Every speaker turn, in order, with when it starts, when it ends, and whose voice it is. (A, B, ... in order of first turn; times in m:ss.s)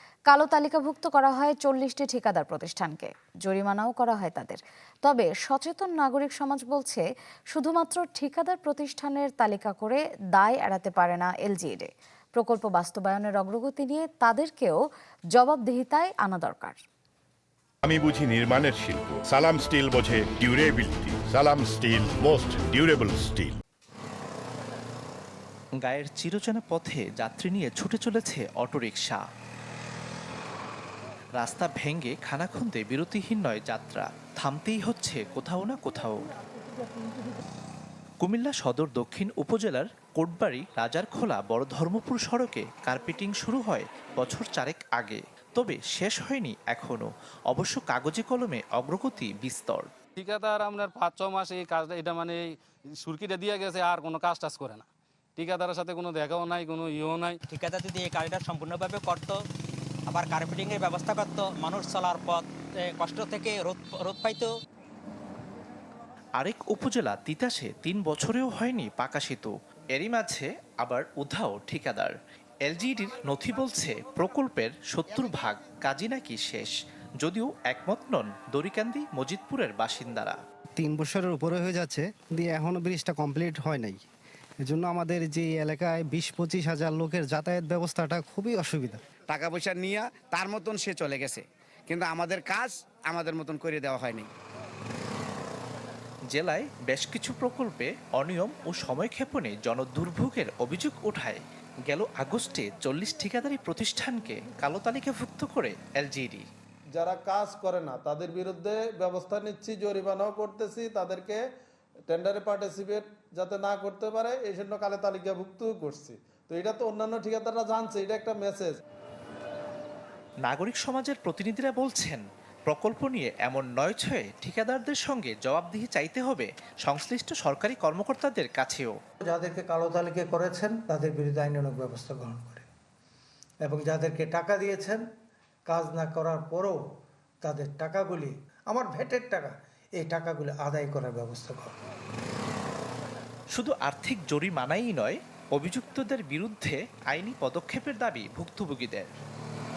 0:00.3-0:16.8 A
0:17.8-0:23.6 B
0:25.8-0:29.2 C
0:31.4-0:36.2 C
0:38.2-0:49.9 C
0:50.2-0:57.4 D
0:57.5-0:59.4 E
1:00.1-1:04.5 E
1:06.4-1:12.1 C
1:12.6-1:20.4 C
1:20.8-1:24.0 F
1:24.6-1:29.0 F
1:29.2-1:34.3 G
1:36.3-1:46.4 C
1:47.0-1:51.4 H
1:52.1-1:58.8 H
2:00.4-2:08.9 C
2:09.2-2:12.7 I
2:13.7-2:15.0 I
2:15.7-2:16.8 I
2:17.4-2:21.7 I
2:23.5-2:29.1 C